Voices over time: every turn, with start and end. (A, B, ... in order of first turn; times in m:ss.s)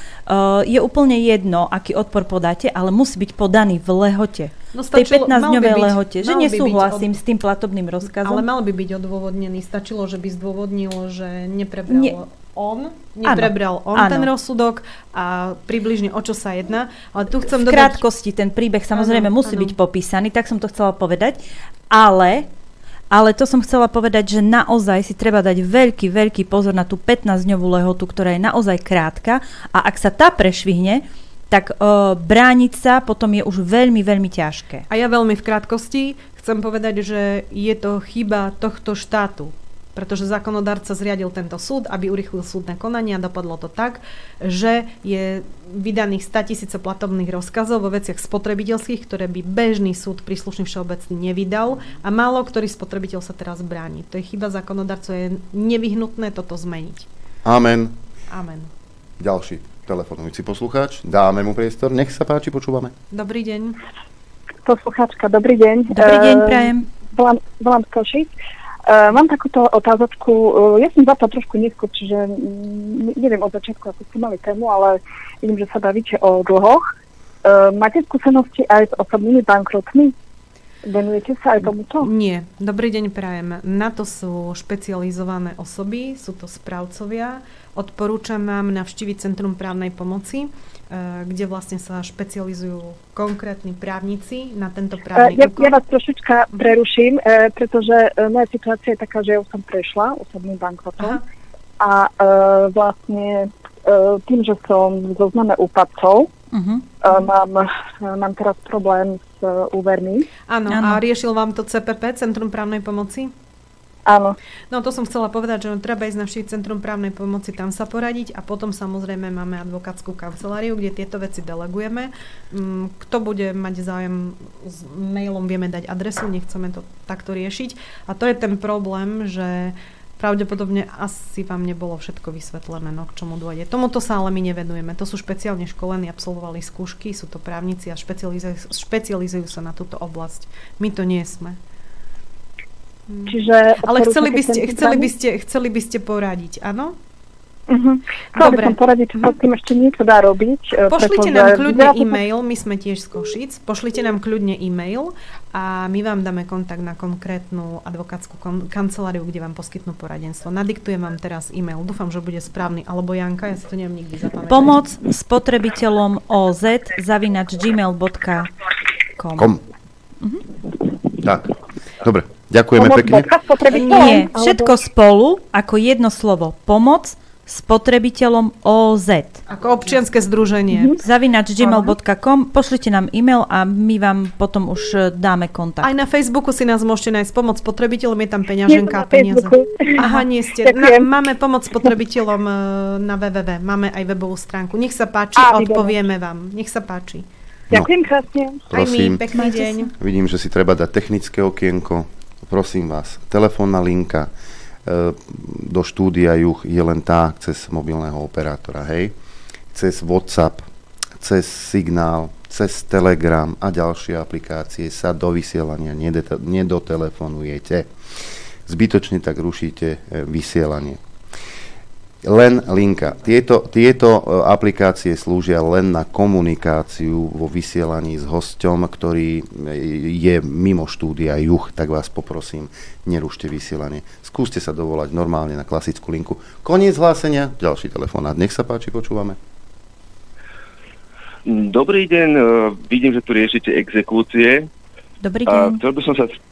0:00.3-0:08.4 A
0:04.7-0:07.2 B
0:08.0-0:18.0 B
0:13.2-0:14.3 A
0:17.6-0:22.5 A
0:18.9-0:19.8 B
0:23.1-0:34.8 A
0:34.9-0:57.1 B
0:57.4-0:57.9 C
0:58.3-0:58.7 B
0:59.2-1:02.9 C
1:03.1-1:03.8 B
1:04.6-1:08.3 D
1:05.9-1:06.8 A
1:08.9-1:16.8 D
1:17.4-1:20.1 D
1:20.8-1:22.1 D
1:21.6-1:35.8 B
1:35.2-1:41.2 D
1:41.8-1:46.3 D
1:46.5-1:46.8 A
1:47.0-1:50.2 D
1:50.3-1:53.3 B
1:50.7-1:51.0 A
1:54.0-1:54.3 D
1:54.7-2:21.6 B
2:23.1-2:26.9 B
2:23.3-2:25.1 D
2:27.7-2:32.2 D
2:28.3-2:29.4 B
2:30.9-2:44.8 B
2:44.5-2:48.5 A
2:49.2-2:49.5 A
2:49.4-2:49.6 C
2:51.2-2:51.5 C
2:52.0-2:53.3 C
2:52.8-2:54.8 D
2:53.7-2:54.4 B
2:53.9-2:59.4 A
2:59.5-3:01.0 B
3:00.7-3:01.0 D
3:01.0-3:05.9 A
3:01.6-3:01.9 B
3:05.8-3:17.2 B
3:08.6-3:11.1 D
3:15.4-3:16.0 D
3:17.7-3:18.7 D
3:18.7-3:19.2 C
3:18.7-3:19.9 B
3:19.3-3:19.9 A
3:20.0-3:24.3 C
3:24.9-3:29.1 C
3:29.7-3:30.6 C
3:31.2-3:37.8 C
3:38.7-3:41.0 C
3:42.2-3:59.4 C
4:01.4-4:04.7 E
4:05.2-4:05.8 A
4:05.4-4:06.4 E